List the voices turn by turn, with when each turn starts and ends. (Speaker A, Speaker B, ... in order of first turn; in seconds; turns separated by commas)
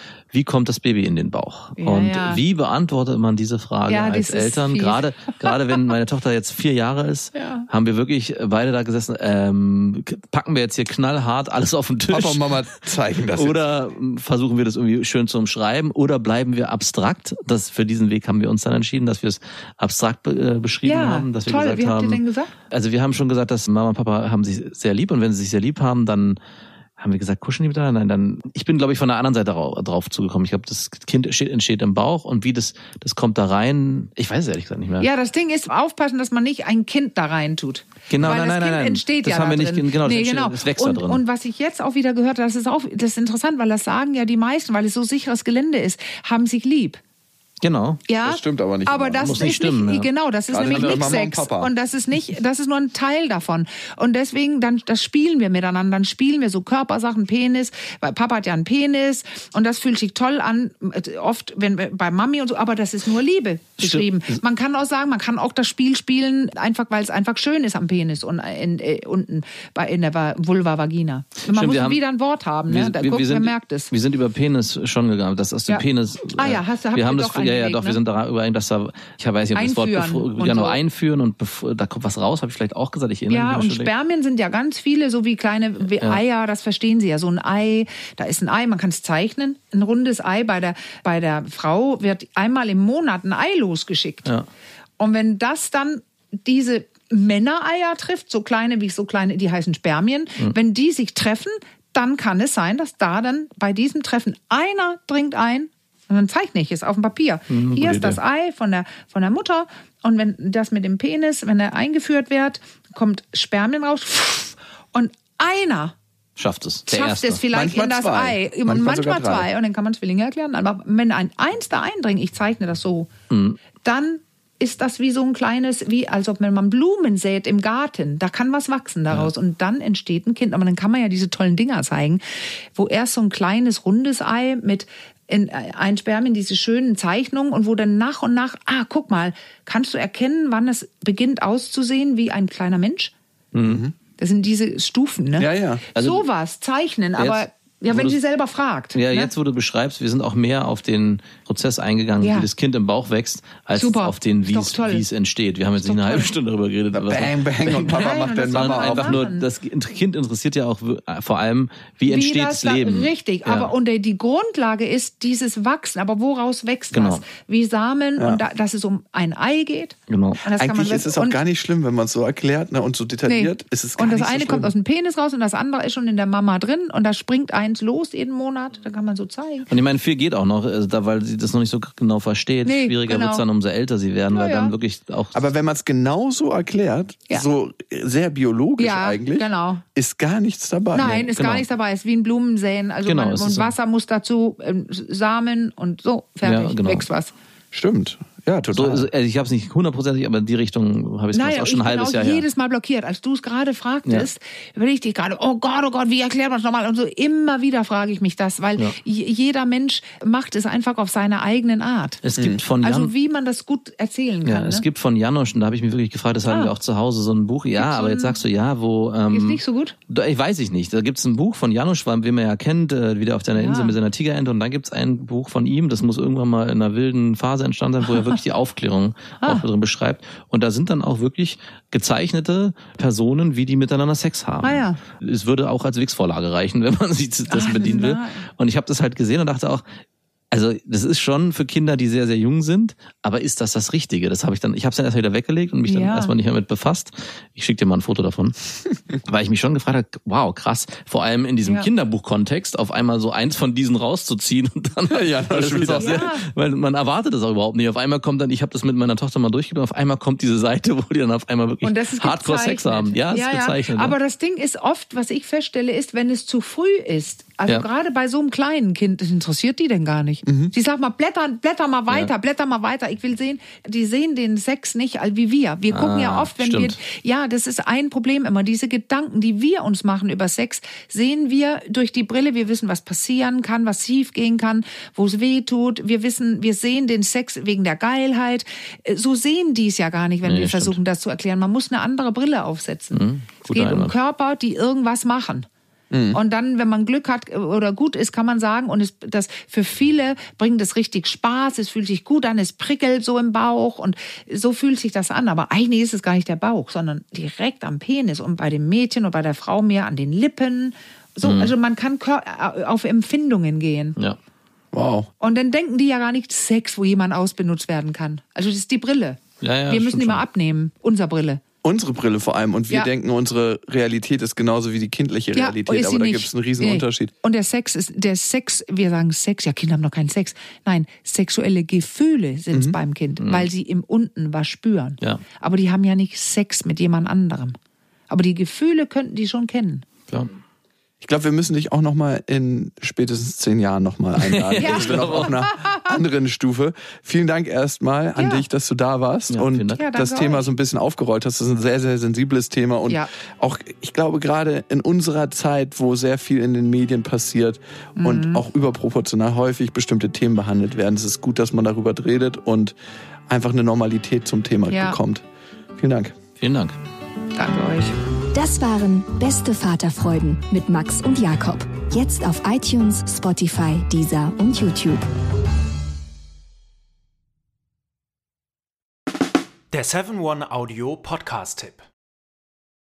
Speaker A: 0.3-12.4, Speaker B: 1.8-2.4, Speaker B: 3.9-5.5, Speaker B: 7.3-7.7, Speaker C: 12.1-13.6, Speaker A: 13.3-26.4, Speaker B: 20.9-22.5, Speaker A: 27.0-35.1, Speaker B: 35.0-47.0, Speaker A: 38.1-41.2, Speaker A: 47.6-48.0, Speaker B: 48.1-73.9, Speaker C: 48.2-49.5, Speaker A: 49.2-50.1, Speaker C: 50.5-51.7, Speaker A: 50.7-51.2, Speaker A: 63.8-64.4, Speaker A: 71.5-72.0, Speaker A: 72.7-83.9, Speaker B: 75.7-78.0, Speaker B: 79.5-80.8, Speaker B: 83.3-94.3, Speaker B: 95.0-115.9, Speaker A: 107.5-108.2, Speaker A: 116.4-117.4, Speaker B: 116.9-123.1, Speaker C: 117.5-119.5, Speaker A: 123.3-123.6, Speaker B: 123.8-132.2, Speaker B: 132.7-143.1, Speaker A: 143.5-143.8, Speaker C: 143.6-143.9, Speaker B: 144.2-149.3, Speaker C: 145.4-145.8, Speaker A: 145.9-146.2, Speaker A: 147.2-148.2, Speaker A: 148.9-163.7, Speaker B: 152.2-152.5, Speaker B: 153.7-155.0, Speaker B: 155.8-156.3, Speaker C: 156.9-159.2, Speaker B: 157.8-159.4, Speaker B: 162.1-171.4, Speaker A: 166.9-167.2, Speaker C: 168.2-168.4, Speaker A: 170.1-170.4, Speaker C: 170.6-174.7, Speaker B: 173.2-179.7, Speaker A: 179.7-185.4, Speaker B: 182.6-183.4, Speaker B: 184.3-184.7, Speaker C: 185.3-191.3, Speaker B: 188.8-189.8, Speaker B: 190.9-197.3, Speaker A: 191.0-191.6, Speaker A: 193.0-193.7, Speaker A: 196.4-197.1, Speaker C: 197.7-199.1, Speaker A: 198.7-202.4, Speaker B: 201.3-212.2, Speaker A: 212.2-213.1, Speaker C: 212.4-212.6, Speaker B: 212.8-214.8, Speaker A: 214.4-239.8, Speaker B: 216.5-216.7, Speaker B: 217.8-218.4, Speaker B: 219.3-219.9, Speaker B: 223.6-224.0, Speaker B: 234.6-235.0, Speaker B: 237.5-238.4, Speaker A: 240.5-248.6, Speaker B: 245.9-246.3, Speaker A: 249.2-264.1, Speaker C: 255.1-256.2, Speaker B: 255.9-256.5, Speaker B: 261.8-295.6, Speaker C: 270.4-270.7, Speaker A: 275.9-277.0, Speaker A: 290.4-291.0, Speaker A: 293.1-294.1, Speaker C: 296.1-296.4, Speaker B: 296.3-314.2, Speaker A: 311.4-311.7, Speaker C: 314.9-315.3, Speaker B: 315.4-321.6, Speaker A: 319.6-320.4, Speaker C: 321.8-327.3, Speaker B: 325.5-337.8, Speaker C: 332.7-333.0, Speaker A: 333.4-333.7, Speaker B: 338.3-340.0, Speaker C: 341.2-362.9, Speaker A: 344.4-345.6, Speaker B: 344.8-346.1, Speaker B: 348.4-348.6, Speaker A: 349.5-350.0, Speaker B: 349.9-350.7, Speaker B: 358.2-358.6, Speaker C: 363.5-365.4, Speaker B: 364.9-365.2, Speaker C: 366.0-366.4, Speaker A: 366.6-367.0, Speaker B: 367.6-368.1, Speaker D: 368.5-375.3, Speaker E: 379.9-382.0